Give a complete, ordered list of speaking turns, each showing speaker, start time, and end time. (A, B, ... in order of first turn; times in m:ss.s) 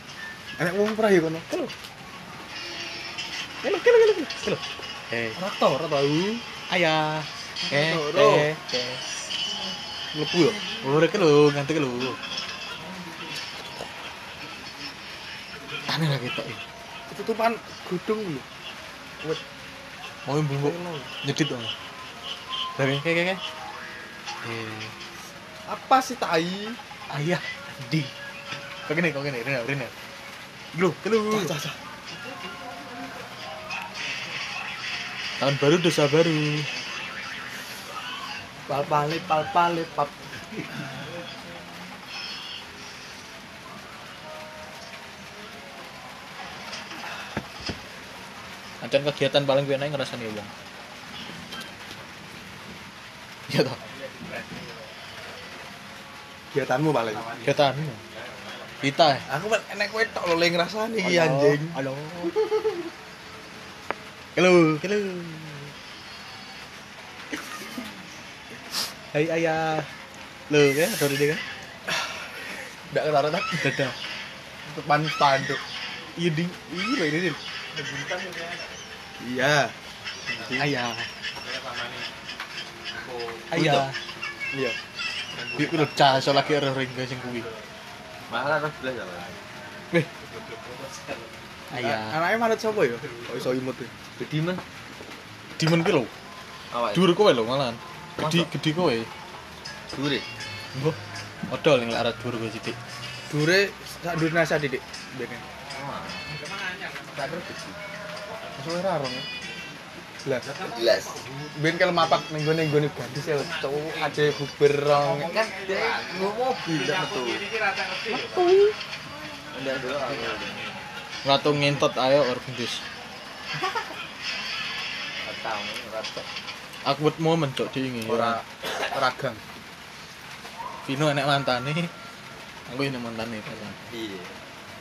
0:00.6-0:01.5 A
0:03.6-0:05.4 B
0:05.4-0:06.4 A
0:06.7-0:09.0 B
0:07.7-0:08.5 A
0:10.1-0:10.6 A
0:10.8-0:12.2 B
0:15.9-0:16.6 B
0:17.1-0:18.4 A
0:20.3-0:21.7 B
0:20.6-0:21.1 A
0:22.8-0:23.4 B
0:24.4-0:24.9 B
0:25.7-0:26.8 A
0:27.1-0:28.1 B
0:28.9-0:29.9 B
0:30.7-0:31.6 B
0:31.3-0:31.8 A
0:35.4-0:36.7 B
0:38.7-0:40.1 A
0:48.8-0:50.5 B
0:53.5-0:53.8 B
0:53.8-0:55.0 C
0:56.5-0:57.3 A
0:57.1-0:59.2 C
0:57.4-0:58.0 B
0:58.8-0:59.3 B
0:59.3-1:01.8 A
1:01.0-1:02.3 B
1:04.4-1:05.7 B
1:09.1-1:09.9 B
1:10.5-1:11.4 B
1:12.9-1:13.7 A
1:13.6-1:14.0 B
1:14.7-1:15.6 A
1:16.2-1:17.4 B
1:17.7-1:18.8 C
1:19.2-1:19.8 A
1:20.3-1:20.6 C
1:20.3-1:20.7 A
1:20.5-1:21.1 B
1:21.4-1:22.1 C
1:22.9-1:23.5 C
1:23.5-1:23.9 A
1:23.5-1:24.0 B
1:24.5-1:24.8 A
1:25.3-1:27.6 C
1:25.6-1:27.5 B
1:28.3-1:28.5 C
1:28.3-1:29.4 D
1:30.2-1:31.5 C
1:31.7-1:32.2 B
1:31.7-1:33.9 A
1:32.9-1:33.6 C
1:34.2-1:34.6 D
1:35.6-1:36.1 B
1:36.7-1:37.1 D
1:36.9-1:39.1 B
1:38.2-1:38.5 D
1:39.9-1:40.3 D
1:41.5-1:42.8 B
1:43.3-1:45.4 A
1:45.7-1:46.3 D
1:46.3-1:47.4 C
1:47.2-1:47.6 A
1:48.6-1:49.3 A
1:50.4-1:51.5 C
1:50.6-1:51.2 D
1:51.5-1:55.3 A
1:53.2-1:54.4 C
1:55.0-1:58.5 C
1:55.1-1:57.4 D
1:58.1-1:58.8 A
1:59.5-2:00.7 D
1:59.8-2:00.8 C
2:01.2-2:02.8 B
2:05.2-2:06.3 D
2:06.8-2:08.4 B
2:08.1-2:09.4 A
2:10.8-2:11.9 B
2:12.7-2:13.8 B
2:13.9-2:14.4 D